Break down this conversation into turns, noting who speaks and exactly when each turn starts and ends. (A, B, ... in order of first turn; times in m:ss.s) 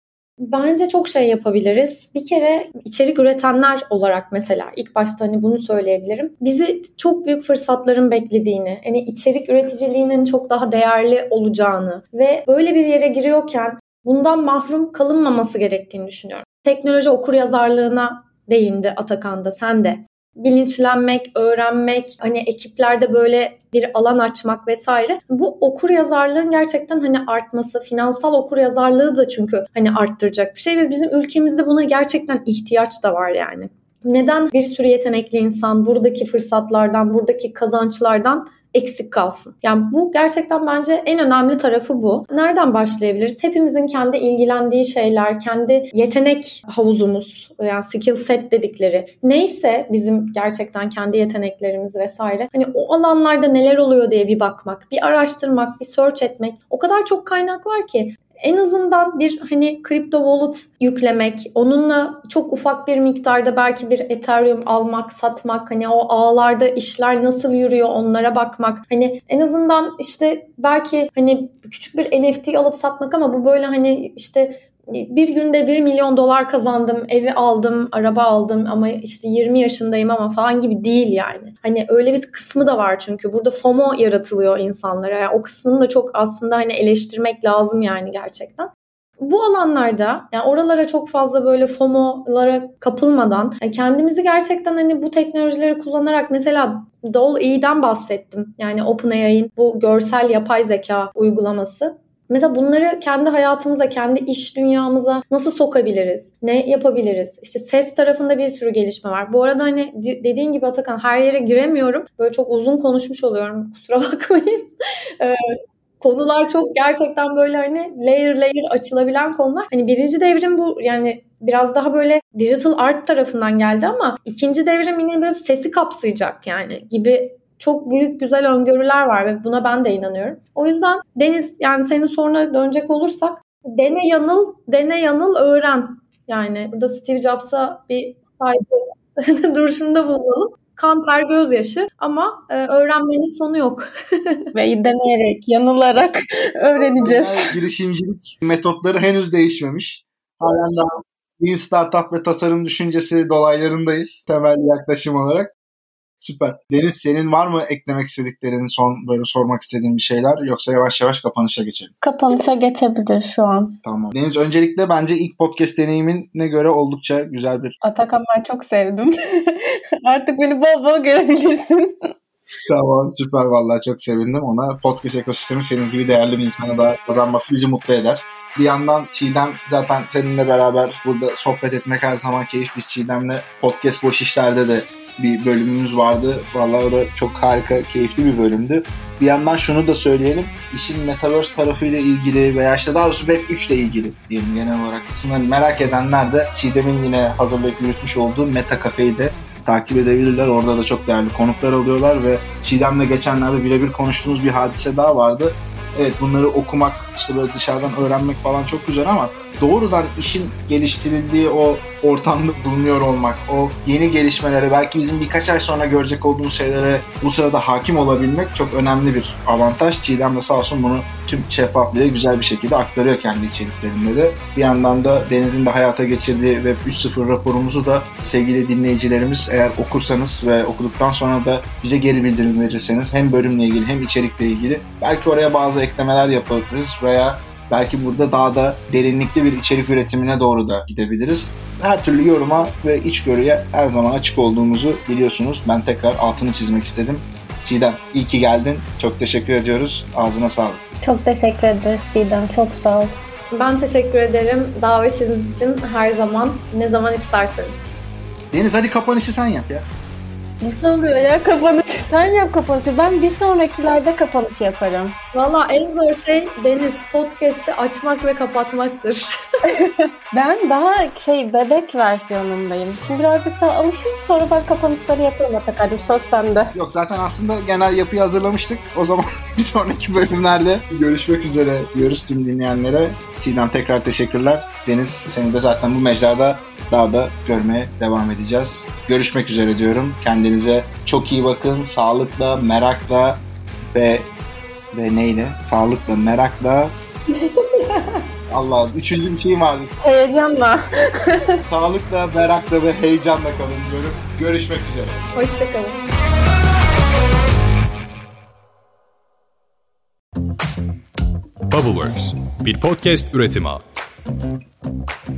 0:00.4-1:54.7 A
1:55.2-2:24.5 A
2:24.6-2:27.5 B
2:27.0-2:35.5 C
2:36.2-2:41.9 C
2:42.0-2:43.8 B
2:43.8-2:47.8 C
2:47.8-2:52.1 B
2:52.7-4:10.8 C
4:11.0-4:13.2 B
4:13.5-4:17.8 A
4:18.5-4:19.9 C
4:20.6-4:25.2 B
4:25.3-4:29.3 A
4:29.7-4:36.7 B
4:36.7-4:53.4 C
4:53.9-4:54.3 C
4:54.9-4:57.0 C
4:57.4-4:58.2 A
4:58.5-4:59.9 C
5:00.0-5:01.6 B
5:01.6-5:05.3 C
5:05.4-5:06.0 A
5:11.7-5:13.9 D